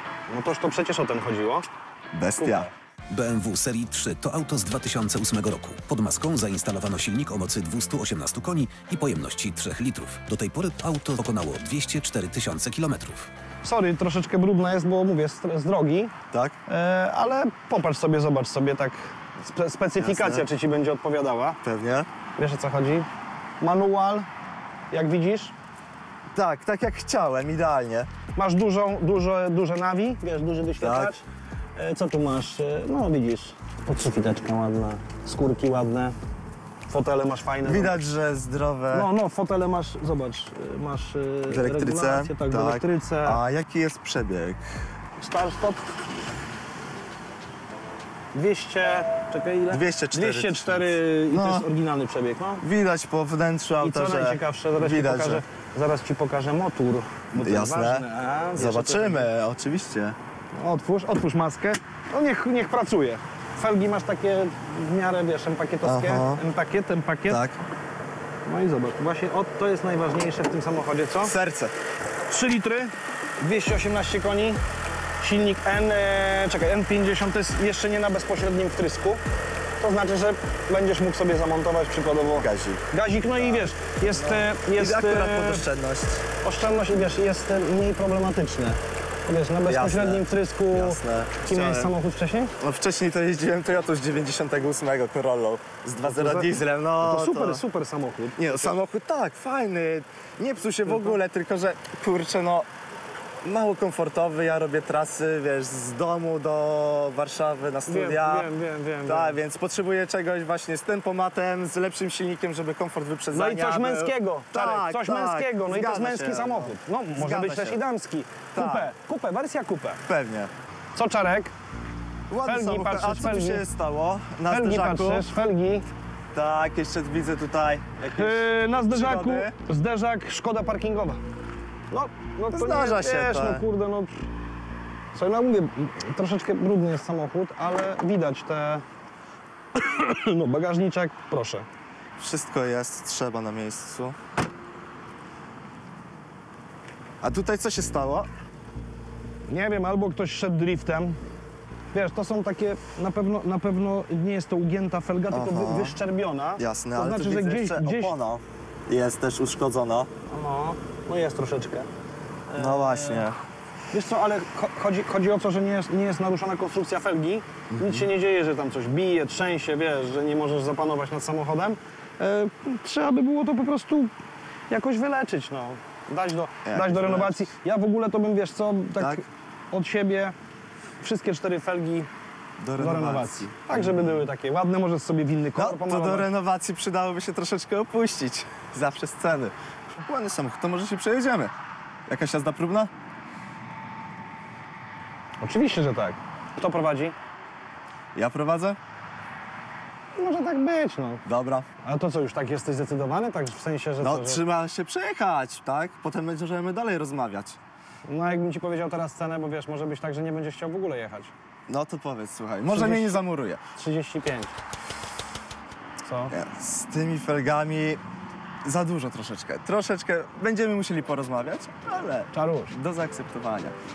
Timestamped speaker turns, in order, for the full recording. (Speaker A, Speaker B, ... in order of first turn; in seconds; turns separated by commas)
Speaker A: 0.3-1.6, Speaker B: 2.1-2.7, Speaker A: 2.4-2.7, Speaker C: 3.1-13.3, Speaker A: 13.6-16.1, Speaker B: 16.3-16.6, Speaker A: 16.7-21.6, Speaker B: 20.0-20.5, Speaker B: 21.6-22.1, Speaker A: 22.4-23.1, Speaker A: 23.6-24.3, Speaker A: 24.9-25.5, Speaker B: 26.3-28.1, Speaker A: 28.4-31.2, Speaker B: 30.8-31.1, Speaker A: 31.8-36.1, Speaker A: 36.9-38.0, Speaker B: 37.6-39.1, Speaker A: 38.9-43.4, Speaker B: 41.5-44.6, Speaker A: 45.2-45.8, Speaker A: 48.3-52.6, Speaker B: 49.7-51.7, Speaker B: 52.6-55.4, Speaker A: 53.8-59.3, Speaker B: 57.3-58.0, Speaker B: 58.5-60.2, Speaker A: 60.5-67.5, Speaker B: 65.8-66.4, Speaker B: 67.3-67.6, Speaker A: 68.5-71.3, Speaker B: 71.2-71.7, Speaker A: 72.3-74.6, Speaker A: 75.2-79.2, Speaker A: 79.8-85.7, Speaker B: 82.3-86.2, Speaker A: 86.4-92.5, Speaker B: 89.7-91.9, Speaker B: 92.6-97.6, Speaker A: 96.0-98.8, Speaker B: 98.4-102.7, Speaker A: 100.8-101.2, Speaker B: 103.4-108.5, Speaker A: 107.9-109.4, Speaker B: 109.0-117.8, Speaker A: 113.3-120.0, Speaker B: 118.5-118.9, Speaker B: 120.0-120.5, Speaker A: 120.9-121.5, Speaker B: 122.3-125.3, Speaker A: 122.4-123.7, Speaker A: 124.5-125.9, Speaker B: 126.3-129.5, Speaker A: 128.0-131.2, Speaker A: 131.9-134.2, Speaker B: 132.5-133.6, Speaker A: 135.1-138.8, Speaker A: 139.7-141.7, Speaker B: 142.2-144.1, Speaker B: 147.2-148.3, Speaker A: 149.5-151.2, Speaker A: 151.9-158.2, Speaker B: 155.3-156.0, Speaker B: 156.6-160.1, Speaker A: 160.3-161.9, Speaker A: 162.5-163.3, Speaker B: 162.6-163.4, Speaker A: 163.9-174.1, Speaker B: 167.7-168.0, Speaker A: 174.7-180.3, Speaker B: 176.6-177.5, Speaker B: 179.0-179.2, Speaker A: 181.0-182.1, Speaker B: 182.6-184.2, Speaker A: 182.8-186.3, Speaker B: 185.6-191.5, Speaker B: 192.1-192.9, Speaker A: 195.4-197.1, Speaker B: 198.1-198.8, Speaker A: 200.2-201.2, Speaker B: 201.2-201.7, Speaker A: 201.8-204.4, Speaker B: 204.0-207.6, Speaker A: 208.1-211.3, Speaker B: 211.7-213.6, Speaker A: 212.7-213.2, Speaker A: 213.7-214.5, Speaker A: 216.0-216.3, Speaker B: 216.3-218.0, Speaker B: 218.6-223.7, Speaker A: 222.3-222.8